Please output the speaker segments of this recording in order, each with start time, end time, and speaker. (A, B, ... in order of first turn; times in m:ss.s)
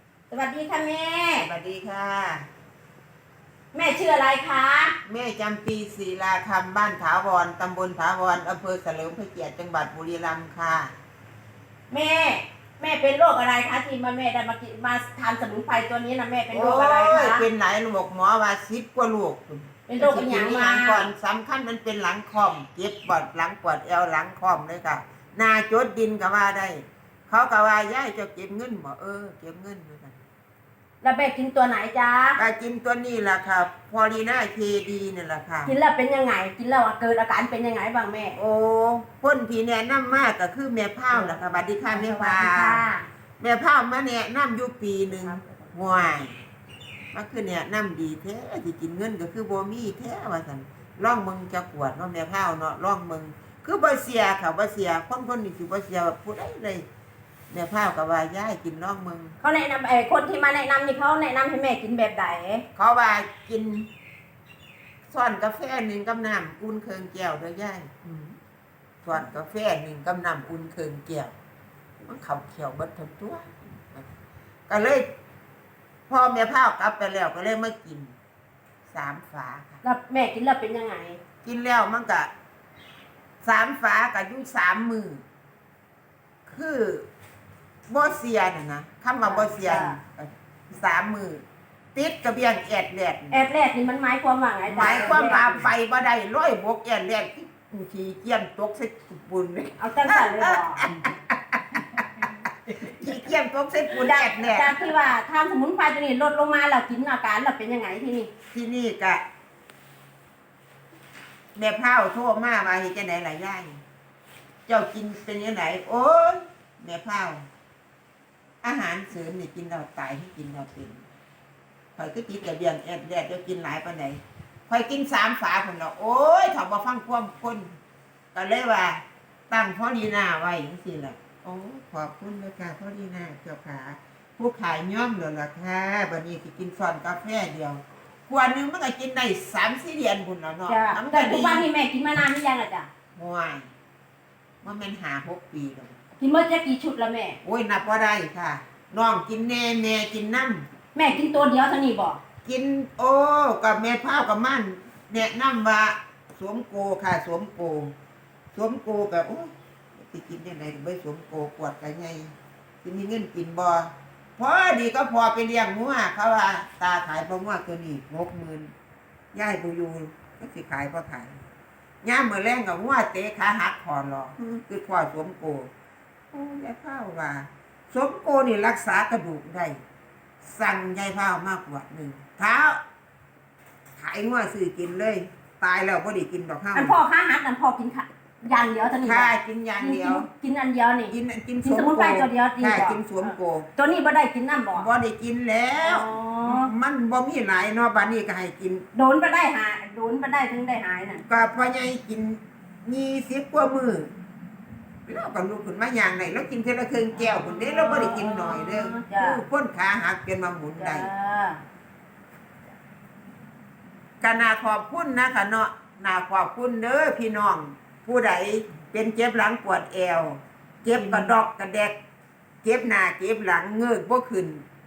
0:00.3-0:01.4 A
0:01.4-0:02.4 B
0:03.7-0:04.9 A
0:05.0-0:10.9 B
0:11.9-0:17.4 A
0:16.5-0:30.2 B
0:19.9-0:21.1 A
0:31.0-0:32.4 A
0:32.4-0:35.7 B
0:35.6-0:38.4 A
0:38.4-0:42.8 B
0:41.1-0:43.0 A
0:43.4-0:46.4 B
0:45.1-0:45.7 A
0:47.1-0:56.8 B
0:57.5-0:59.4 B
0:59.4-1:02.6 A
1:02.8-1:03.9 B
1:05.1-1:08.3 B
1:09.0-1:11.3 B
1:12.0-1:14.1 B
1:14.7-1:15.0 B
1:16.1-1:18.1 B
1:18.9-1:19.8 B
1:19.8-1:21.2 A
1:21.4-1:22.3 B
1:23.4-1:25.2 B
1:26.4-1:27.0 B
1:27.9-1:33.4 B
1:29.2-1:30.0 A
1:33.3-1:35.7 A
1:34.7-1:45.0 B
1:39.8-1:40.8 A
1:43.9-1:48.3 A
1:48.5-1:49.2 B
1:51.5-1:53.8 B
1:54.7-1:57.4 B
1:58.6-2:01.0 B
2:02.0-2:07.7 B
2:08.3-2:21.7 B
2:20.7-2:22.9 A
2:23.2-2:23.7 B
2:24.6-2:26.0 B
2:26.2-2:27.4 A
2:27.4-2:30.6 B
2:30.9-2:32.2 A
2:32.4-2:37.9 B
2:38.5-2:48.7 B
2:49.3-2:51.4 B
2:52.0-2:55.7 B
2:56.3-2:59.8 B
3:00.4-3:02.8 B
3:04.0-3:06.9 B
3:06.7-3:14.9 A
3:09.0-3:10.3 B
3:11.1-3:13.7 B
3:14.7-3:18.8 B
3:15.8-3:16.7 A
3:18.9-3:21.2 A
3:21.2-3:24.1 B
3:25.1-3:31.1 B
3:27.2-3:29.4 A
3:30.8-3:31.6 A
3:34.2-3:42.0 B
3:42.6-3:44.6 B